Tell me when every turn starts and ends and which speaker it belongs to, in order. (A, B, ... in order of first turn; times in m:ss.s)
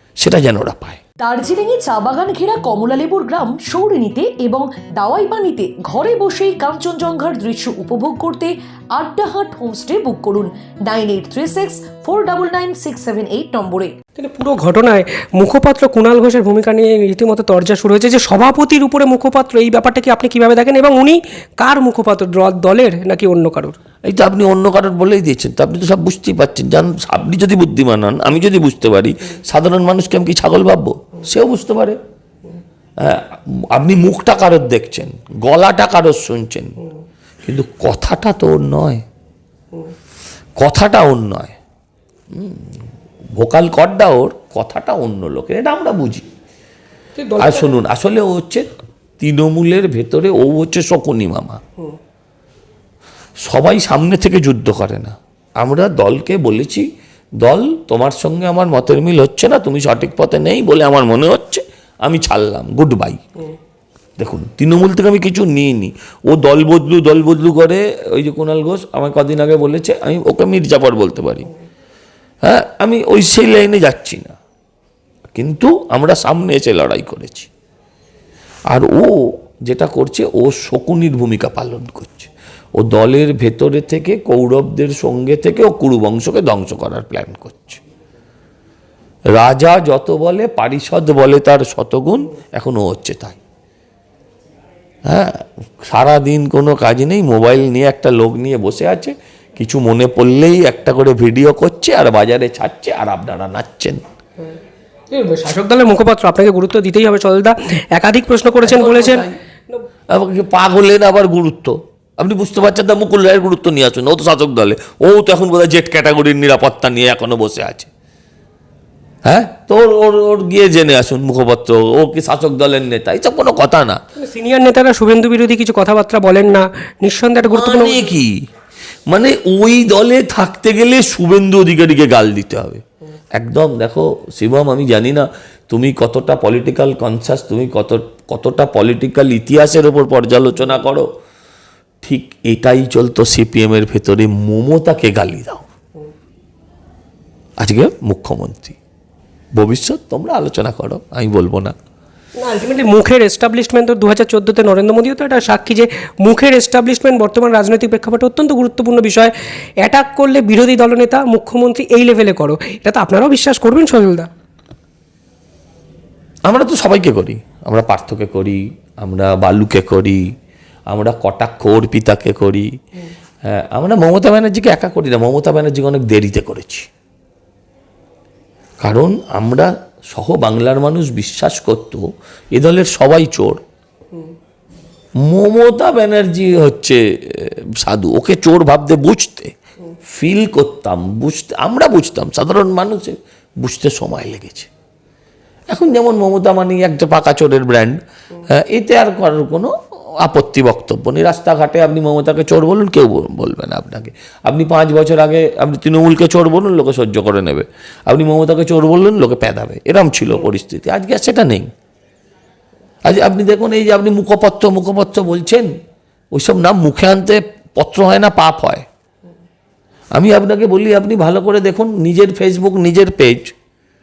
0:00.2-0:01.0 A
0:01.2-0:14.0 B
0:14.2-0:23.8 C
0:24.1-0:32.0 A
0:33.0-0:36.8 A
0:37.4-0:39.0 A
0:40.6-0:41.6 A
0:42.3-0:42.8 A
0:43.4-0:46.3 A
0:47.2-0:47.7 C
0:47.4-0:48.7 A
0:49.2-0:51.6 A
0:53.4-0:56.9 A
0:57.4-1:03.2 A
1:04.2-1:11.5 A
1:12.4-1:14.4 A
1:15.4-1:17.5 A
1:18.7-1:27.8 A
1:29.4-1:33.4 A
1:35.1-1:44.0 A
1:45.1-1:49.2 C
1:48.6-1:49.4 A
1:50.1-1:57.9 A
1:59.2-2:04.0 A
2:04.2-2:08.1 C
2:07.4-2:08.4 A
2:09.1-2:12.8 A
2:13.4-2:21.1 A
2:22.0-2:25.7 A
2:27.6-2:28.8 A
2:29.6-2:31.8 A
2:32.4-2:44.3 C
2:46.5-2:50.2 A
2:50.9-2:52.7 A
2:53.5-2:56.9 A
2:58.8-3:03.6 A
3:05.2-3:09.5 A
3:10.1-3:14.7 A
3:15.7-3:31.7 A
3:33.0-3:35.7 A
3:36.3-3:38.9 A
3:40.1-3:43.5 A